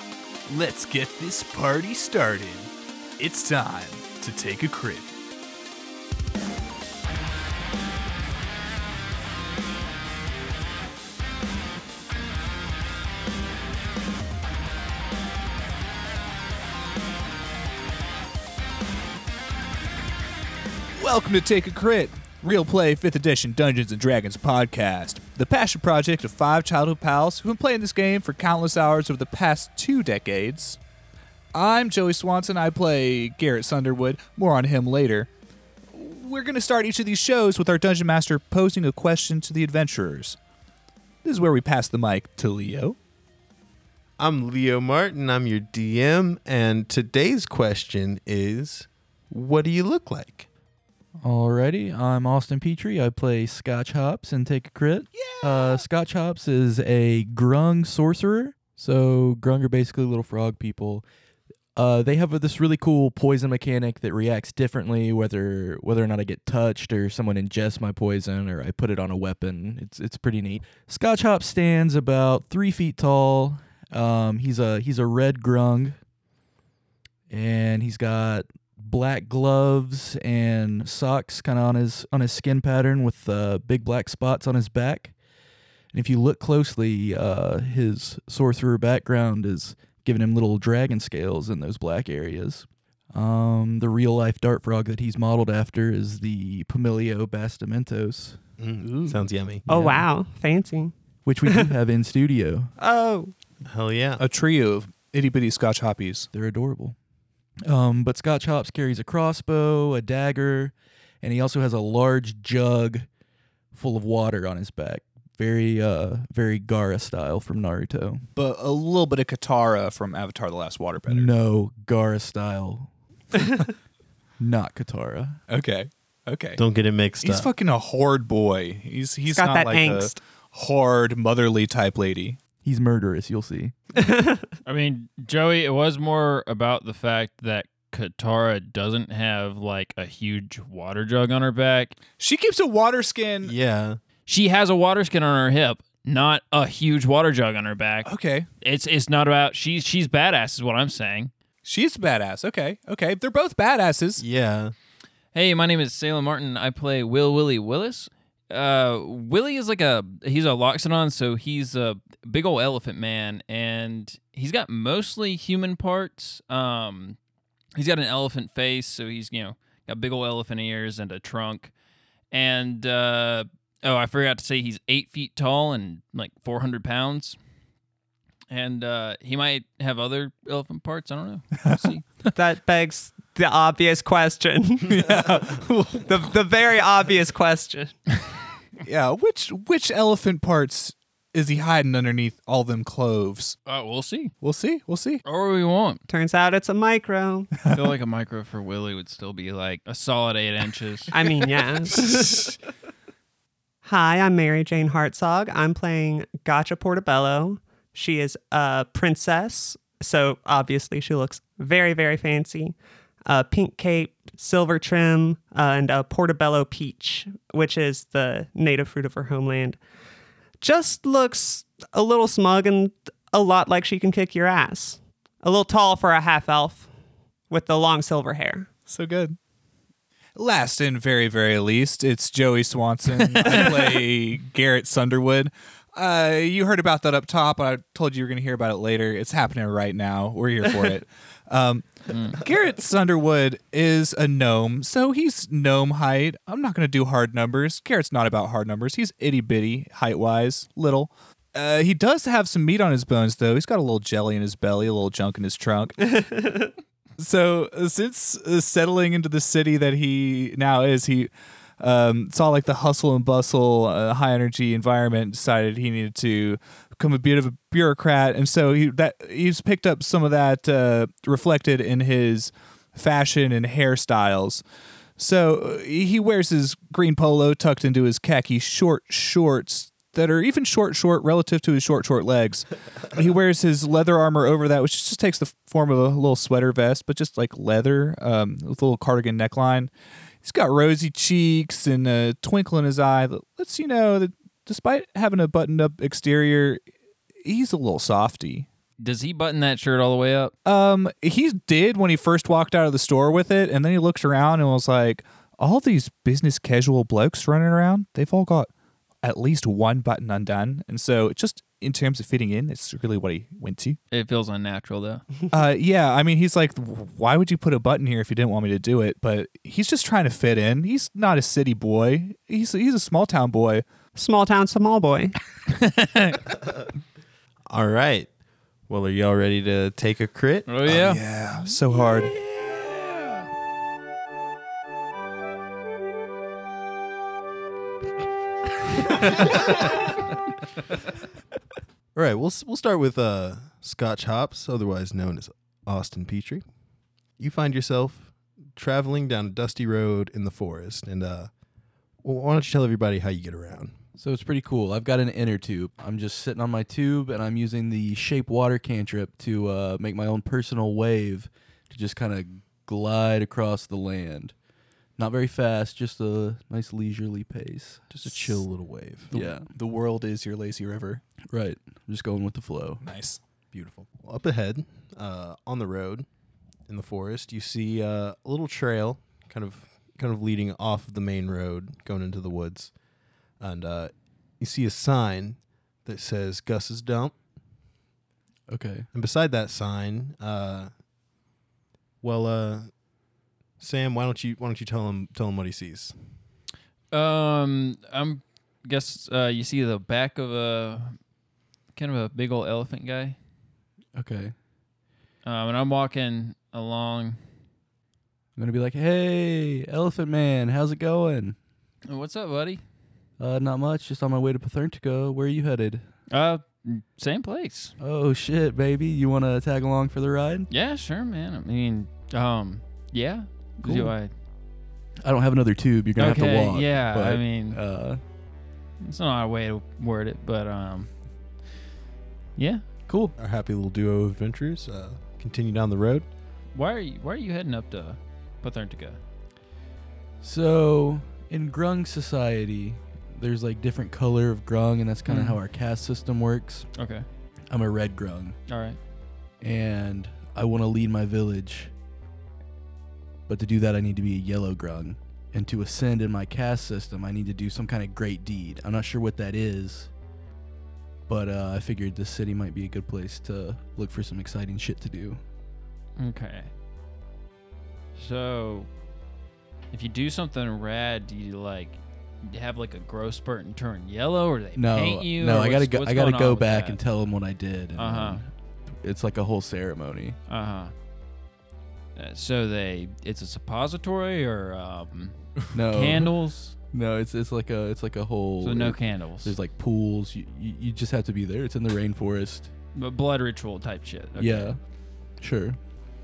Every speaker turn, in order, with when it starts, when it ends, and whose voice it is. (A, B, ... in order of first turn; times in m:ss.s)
0:00.5-0:05.1 A
0:21.0-0:30.8 A
0:31.5-0:35.3 A
0:35.9-0:40.4 A
0:41.2-0:43.0 A
0:44.2-0:50.5 B
0:51.2-1:01.0 C
0:55.2-0:55.8 A
1:01.8-1:16.0 C
1:17.3-1:25.1 C
1:25.9-1:38.4 C
1:38.6-1:39.7 B
1:38.8-1:39.2 A
1:39.7-1:40.1 C
1:39.7-1:40.9 D
1:41.3-1:42.7 C
1:42.8-1:43.3 D
1:43.6-1:44.2 B
1:44.2-1:46.3 A
1:46.3-1:47.0 C
1:47.6-1:53.1 C
1:53.7-1:58.2 C
1:58.4-2:01.3 A
2:01.1-2:02.9 C
2:04.4-2:05.4 C
2:05.5-2:06.6 A
2:06.6-2:07.5 B
2:07.2-2:12.4 A
2:09.3-2:10.2 D
2:12.6-2:13.7 C
2:14.0-2:14.5 D
2:14.7-2:22.0 E
2:22.2-2:23.5 A
2:23.4-2:24.0 B
2:24.3-2:28.1 E
2:28.0-2:28.5 A
2:28.6-2:31.3 E
2:31.6-2:34.2 A
2:34.2-2:34.7 B
2:35.3-2:47.2 E
2:47.8-2:51.7 E
2:52.3-2:57.4 E
2:58.5-3:02.1 E
3:01.6-3:01.9 A
3:02.3-3:08.0 D
3:04.9-3:06.1 A
3:08.8-3:13.6 A
3:13.7-3:14.4 E
3:14.4-3:15.2 A
3:15.2-3:16.0 E
3:16.1-3:17.5 D
3:17.7-3:21.1 E
3:21.1-3:22.6 D
3:23.8-3:39.8 D
3:40.6-3:46.9 D
3:47.5-3:48.7 D
3:48.9-3:49.4 A
3:50.4-4:16.4 A
3:53.4-3:53.8 E
4:02.1-4:02.4 E
4:17.2-4:34.6 A
4:35.2-4:49.9 A
4:50.4-4:56.8 A
4:57.4-4:58.7 A
4:59.0-5:00.5 E
5:00.6-5:08.7 A
5:09.2-5:14.0 A
5:14.1-5:15.2 E
5:15.5-5:23.8 A
5:24.2-5:25.4 D
5:25.7-5:26.5 E
5:27.7-5:28.3 B
5:28.9-5:30.9 B
5:30.7-5:31.2 E
5:30.9-5:32.3 A
5:32.0-5:33.5 E
5:42.2-5:46.6 B
5:47.4-5:51.5 B
5:52.2-5:54.0 B
5:54.2-6:04.5 C
6:05.2-6:08.6 C
6:08.1-6:09.3 B
6:09.3-6:09.7 C
6:09.3-6:11.2 A
6:11.5-6:13.0 C
6:13.0-6:13.4 A
6:13.7-6:16.3 B
6:16.9-6:22.9 B
6:23.6-6:27.4 B
6:28.7-6:29.1 C
6:29.1-6:30.9 B
6:32.2-6:33.0 B
6:33.8-6:36.2 B
6:37.1-6:41.2 E
6:42.0-6:43.4 E
6:44.2-6:44.5 C
6:45.4-6:47.4 E
6:48.6-6:51.6 C
6:52.1-6:52.8 E
6:53.4-6:56.0 C
6:56.3-6:58.0 E
6:58.0-7:00.7 C
7:00.7-7:04.3 E
7:03.8-7:04.2 C
7:05.2-7:08.2 C
7:06.2-7:07.8 E
7:09.0-7:11.1 E
7:12.6-7:12.8 E
7:13.1-7:13.3 C
7:13.4-7:16.3 B
7:16.7-7:19.2 E
7:20.4-7:26.9 C
7:25.3-7:25.6 E
7:27.0-7:27.3 E
7:27.7-7:28.6 C
7:28.7-7:29.0 E
7:29.6-7:31.9 C
7:33.5-7:40.1 C
7:41.3-7:45.4 C
7:46.2-7:46.7 E
7:48.2-7:48.9 E
7:49.9-7:57.0 E
7:54.8-7:58.5 C
7:58.0-7:58.4 E
7:59.0-8:00.4 C
8:00.5-8:00.9 E
8:02.2-8:06.8 E
8:05.7-8:06.4 C
8:06.9-8:12.7 C
8:08.6-8:09.5 E
8:13.0-8:14.8 E
8:14.4-8:14.8 C
8:15.4-8:15.8 C